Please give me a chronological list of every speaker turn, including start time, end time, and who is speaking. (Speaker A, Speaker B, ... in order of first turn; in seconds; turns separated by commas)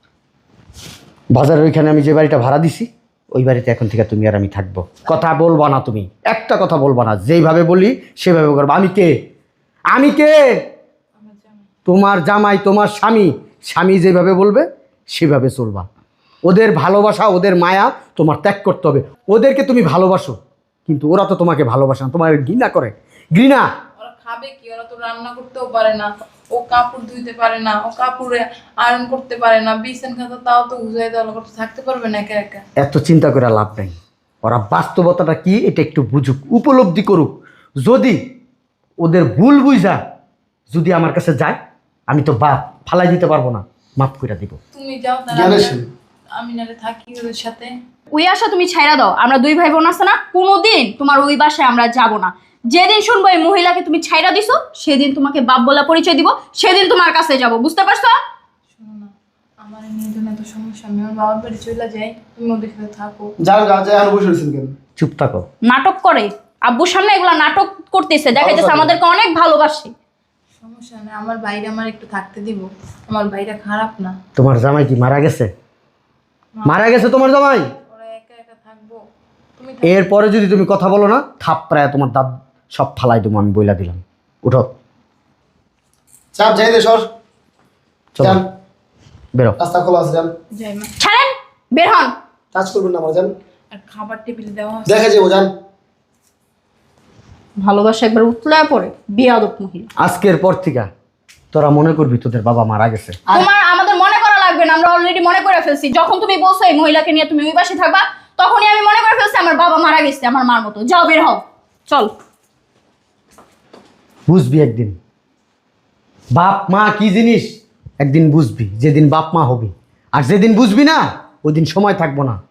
Speaker A: 1.3-9.1, Speaker A: 9.9-10.6, Speaker B: 11.2-11.6, Speaker A: 11.8-15.8, Speaker A: 16.4-23.7, Speaker B: 24.0-32.6, Speaker A: 32.8-37.3, Speaker A: 37.8-38.2, Speaker A: 39.0-40.0, Speaker A: 40.7-41.6, Speaker A: 42.1-44.6, Speaker B: 44.7-45.8, Speaker C: 45.3-45.9, Speaker B: 46.4-47.7, Speaker D: 48.1-58.1, Speaker B: 58.8-59.1, Speaker B: 59.6-63.3, Speaker C: 63.4-64.7, Speaker A: 65.0-65.4, Speaker D: 65.6-69.9, Speaker C: 68.3-69.0, Speaker B: 70.6-74.1, Speaker A: 74.3-75.5, Speaker B: 76.6-79.0, Speaker A: 76.7-77.7, Speaker B: 79.6-80.0, Speaker A: 79.8-84.7, Speaker C: 86.3-87.1, Speaker A: 88.1-88.4, Speaker C: 89.6-90.3, Speaker B: 90.5-90.9, Speaker D: 91.0-92.1, Speaker C: 92.5-93.3, Speaker B: 93.7-95.1, Speaker C: 94.8-95.5, Speaker D: 97.6-99.9, Speaker A: 100.0-100.9, Speaker A: 101.5-103.2, Speaker D: 103.3-112.1, Speaker A: 114.3-115.0, Speaker A: 116.3-117.5, Speaker A: 118.0-122.4